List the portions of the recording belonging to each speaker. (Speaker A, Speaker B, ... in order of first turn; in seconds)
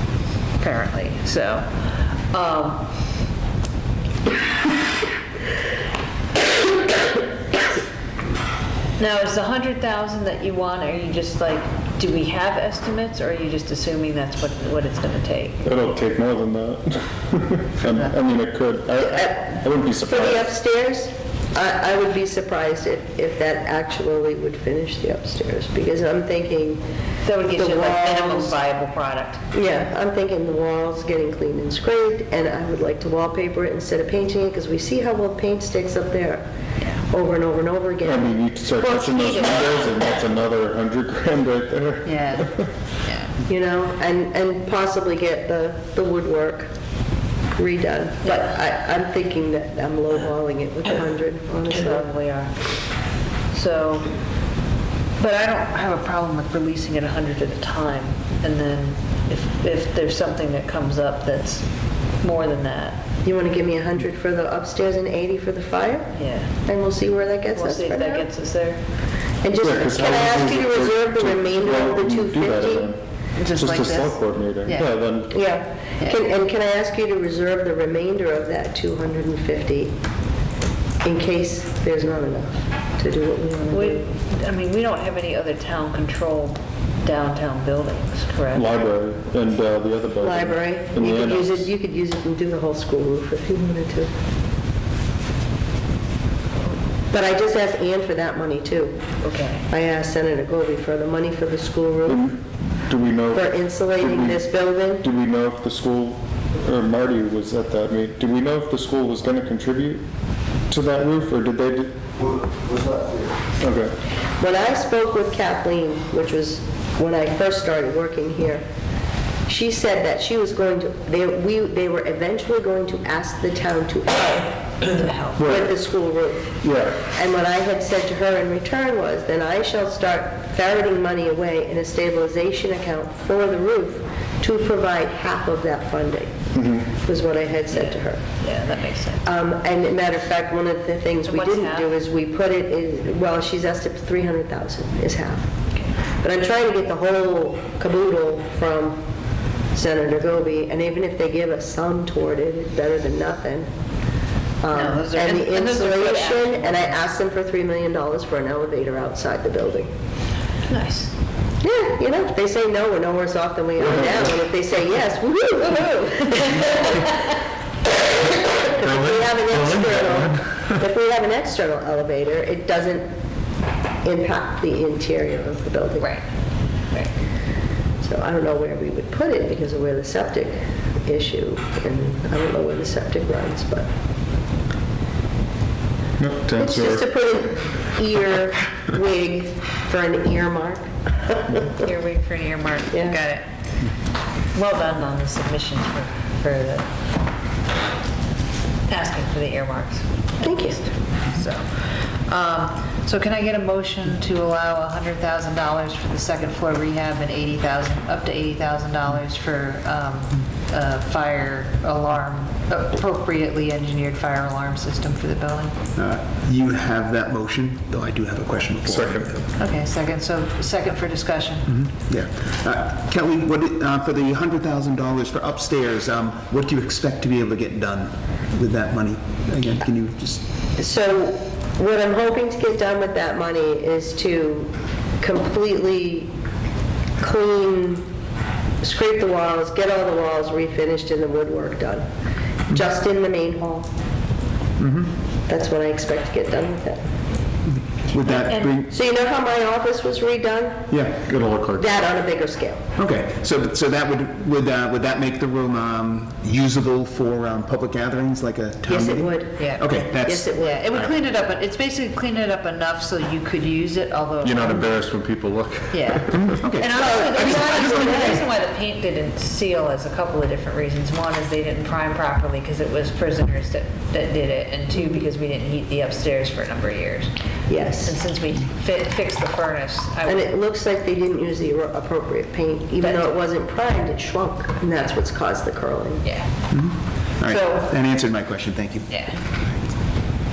Speaker A: 0.6-2.9, 9.0-15.6, 17.9-18.1, 27.2-29.4, 39.2-40.0, 42.0-42.5, 43.0-43.3, 51.7-52.6, 53.5-54.1, 55.2-61.6, 62.2-63.0, 66.1-66.5, 67.5-68.8, 73.4-74.9, 83.7-88.7, 99.2-99.7, 124.8-125.4, 137.7-139.3, 141.2-141.9, 154.7-157.0, 160.7-161.1, 176.0-176.3, 191.7-193.4, 194.5-196.9, 198.9-215.7, 219.6-221.7, 248.5-248.7, 259.6-259.9, 260.5-264.9, 265.9-277.3, 278.0-280.5, 286.2-286.5, 287.5-287.8, 289.1-289.4
Speaker B: 15.6-20.5, 38.0-42.7, 69.6-73.0, 73.5-75.3, 88.5-91.7, 102.1-104.4, 105.0-110.0, 110.7-112.0, 113.6-113.9, 125.4-125.8, 126.6-127.0, 136.5-136.9, 168.8-170.8, 186.2-187.1, 218.8-219.4, 251.3-251.9, 264.4-266.6
Speaker C: 19.0-26.8, 27.6-28.6, 29.5-36.4, 37.1-39.6, 43.5-46.7, 47.5-52.0, 63.2-66.1, 66.6-68.2, 69.4-72.9, 75.3-79.9, 81.0-84.0, 90.2-94.1, 97.1-99.0, 99.7-102.2, 103.3-105.0, 114.4-118.6, 119.5-124.6, 125.4-136.4, 136.9-138.2, 139.2-145.5, 146.2-149.0, 149.7-153.7, 154.6-159.9, 161.6-167.2, 168.3-173.1, 174.0-176.1, 178.0-183.9, 186.6-191.8, 192.9-193.2, 200.4-200.8, 230.8-236.3, 237.2-238.1, 238.8-242.0, 242.7-243.9, 245.5-247.1, 248.7-251.1, 251.7-252.8, 258.9-260.9, 267.0-268.4, 277.7-278.2, 280.2-286.2
Speaker D: 215.9-219.5, 221.7-230.4, 244.8-245.1, 248.1-248.9, 250.9-251.3, 253.0-261.1, 266.6-268.3, 286.7-289.1